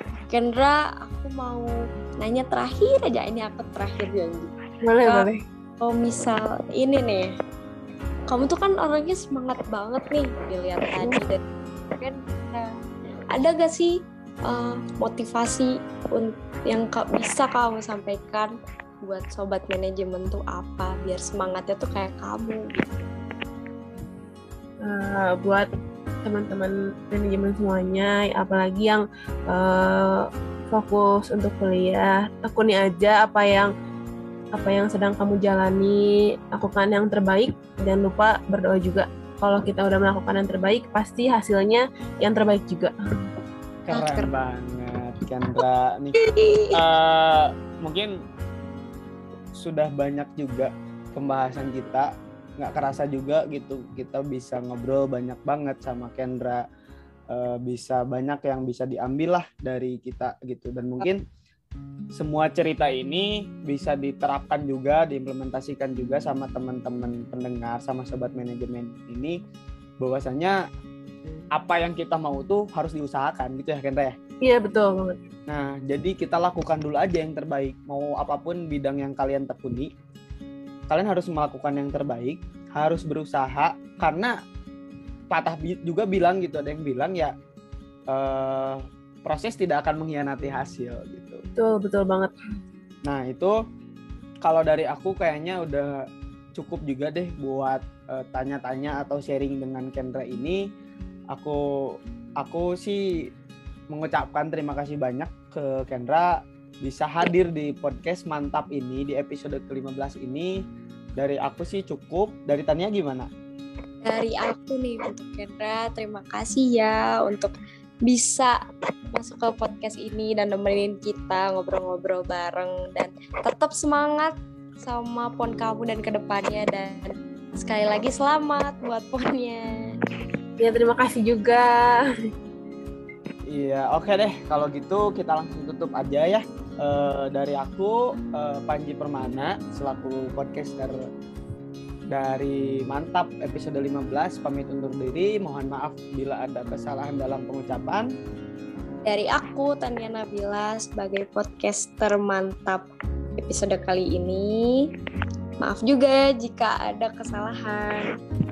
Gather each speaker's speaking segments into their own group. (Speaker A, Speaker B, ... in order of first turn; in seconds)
Speaker A: 0.3-5.3, 5.8-7.3, 8.3-11.4, 11.9-12.7, 13.3-13.9, 14.4-18.5, 19.0-23.1, 43.9-44.3, 46.2-46.8, 114.0-117.5, 118.0-118.6, 119.1-129.6, 149.1-152.8, 153.4-154.9, 155.6-158.1
Speaker B: 4.8-5.4, 24.8-25.7, 26.2-33.7, 34.5-42.9, 74.4-75.2, 91.6-92.3, 130.6-131.7
Speaker C: 43.9-46.2, 46.7-48.1, 49.5-56.6, 57.3-61.2, 62.1-69.3, 70.0-70.5, 71.5-74.1, 75.5-79.9, 80.9-84.3, 85.3-87.3, 88.1-91.4, 93.0-93.5, 94.4-95.9, 96.5-100.6, 101.3-101.6, 102.4-103.0, 103.9-106.3, 106.8-110.5, 111.2-113.3, 133.5-140.9, 142.1-148.1